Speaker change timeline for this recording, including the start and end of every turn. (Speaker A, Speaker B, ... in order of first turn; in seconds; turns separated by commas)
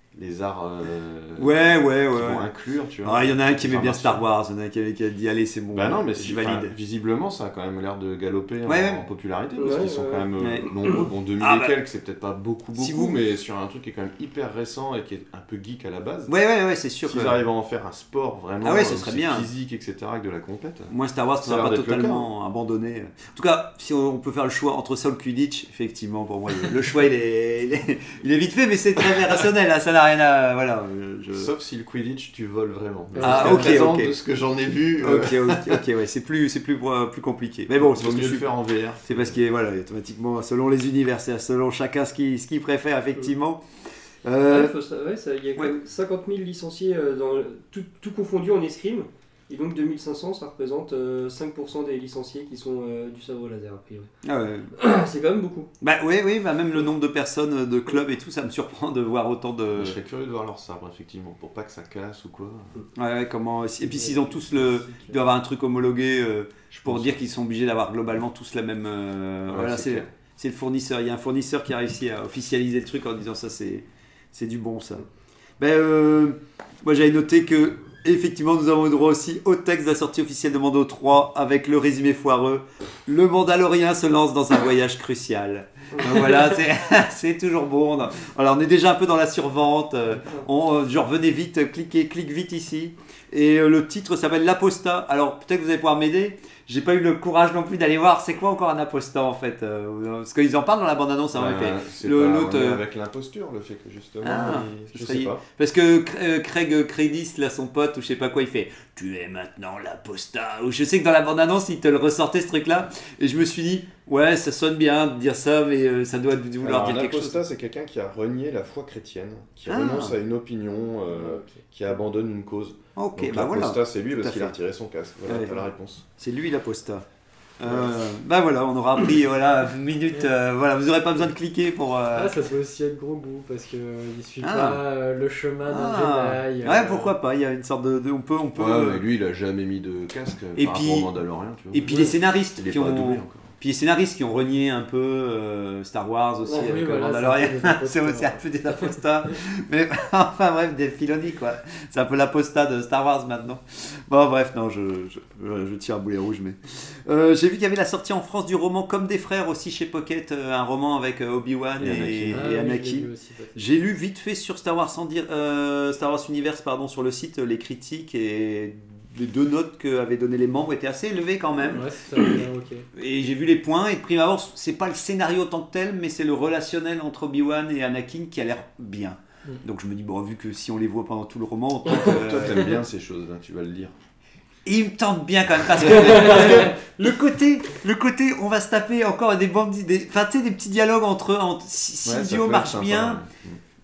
Speaker A: 0.1-4.3, Speaker B: 1.4-2.5, Speaker B: 3.0-6.7, Speaker A: 5.7-16.3, Speaker B: 8.7-9.0, Speaker C: 9.6-10.3, Speaker B: 10.4-10.7, Speaker B: 11.4-11.7, Speaker B: 12.8-13.2, Speaker B: 16.3-17.4, Speaker A: 17.1-22.3, Speaker B: 18.6-19.5, Speaker B: 20.9-31.5, Speaker A: 31.3-35.8, Speaker D: 33.2-33.5, Speaker B: 33.2-34.1, Speaker B: 35.0-38.5, Speaker A: 37.8-39.4, Speaker B: 39.1-43.6, Speaker B: 44.2-44.7, Speaker C: 44.5-54.1, Speaker B: 54.2-54.7, Speaker C: 54.8-55.7, Speaker B: 55.8-60.0, Speaker A: 59.7-62.7, Speaker B: 63.0-75.0, Speaker D: 63.9-65.1, Speaker A: 66.7-67.2, Speaker A: 69.5-70.1, Speaker B: 75.6-102.8, Speaker C: 86.0-86.4, Speaker A: 101.3-105.4, Speaker B: 104.2-117.4, Speaker A: 116.6-126.0, Speaker B: 119.7-120.1, Speaker D: 121.2-121.6, Speaker B: 123.0-124.5, Speaker B: 125.3-125.6, Speaker B: 126.2-127.0, Speaker B: 127.6-132.4, Speaker A: 127.6-127.9, Speaker D: 132.1-137.1, Speaker B: 134.4-134.8, Speaker B: 135.7-139.0, Speaker A: 138.6-143.5, Speaker B: 140.6-141.1, Speaker B: 141.7-172.3, Speaker D: 146.5-148.9, Speaker A: 161.8-162.5, Speaker D: 162.3-163.6, Speaker D: 171.7-172.9, Speaker B: 172.9-182.7, Speaker A: 181.9-183.9, Speaker B: 184.7-193.2, Speaker A: 185.9-186.2, Speaker C: 185.9-186.7, Speaker A: 192.0-193.6